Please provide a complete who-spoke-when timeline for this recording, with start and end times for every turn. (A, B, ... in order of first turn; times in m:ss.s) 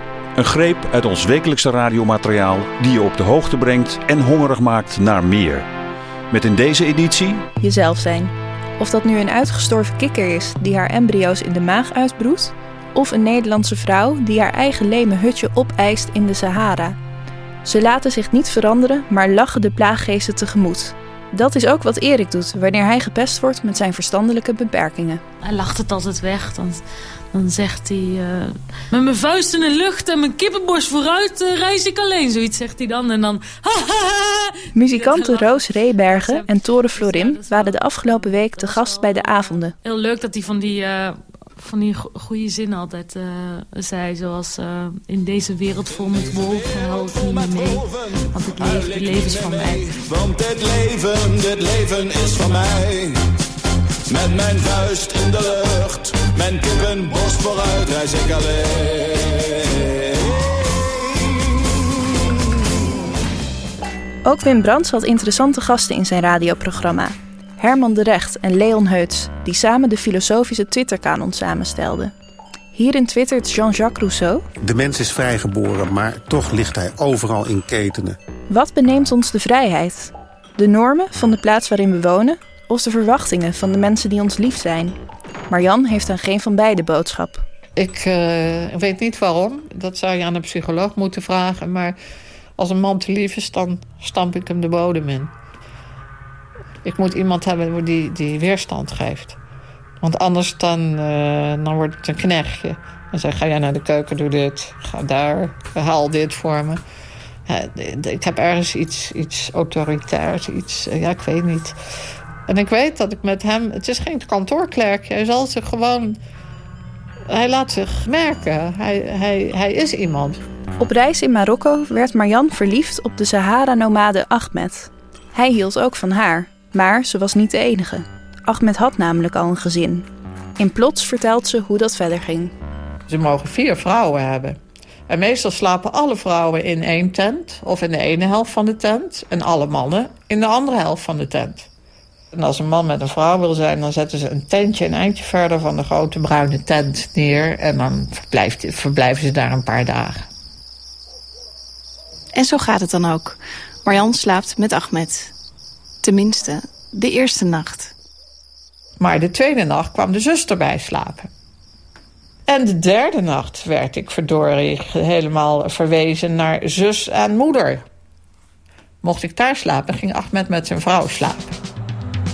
0:00.4-0:05.7 A
0:06.3-0:07.4 A
0:07.6-0:17.0 B
0:17.6-0:25.2 B
0:25.4-0:26.8 C
0:27.3-0:50.0 C
0:34.7-0:39.8 B
0:50.3-0:52.9 D
0:54.6-0:58.2 D
1:04.2-1:12.1 B
1:12.8-1:14.4 B
1:14.7-1:18.1 E
1:18.5-1:25.0 B
1:25.5-1:27.4 B
1:27.8-1:32.0 F
1:32.6-1:35.3 F
1:36.8-1:39.4 F
1:40.0-1:46.8 F
1:47.5-1:51.8 F
1:52.5-1:56.2 F
1:57.3-2:00.4 F
2:00.8-2:10.1 B
2:10.6-2:12.5 B
2:13.1-2:21.7 F
2:22.3-2:30.3 F
2:32.4-2:35.3 G
2:36.0-2:37.9 G
2:39.0-2:41.3 F
2:42.5-2:47.8 F
2:49.0-2:51.6 F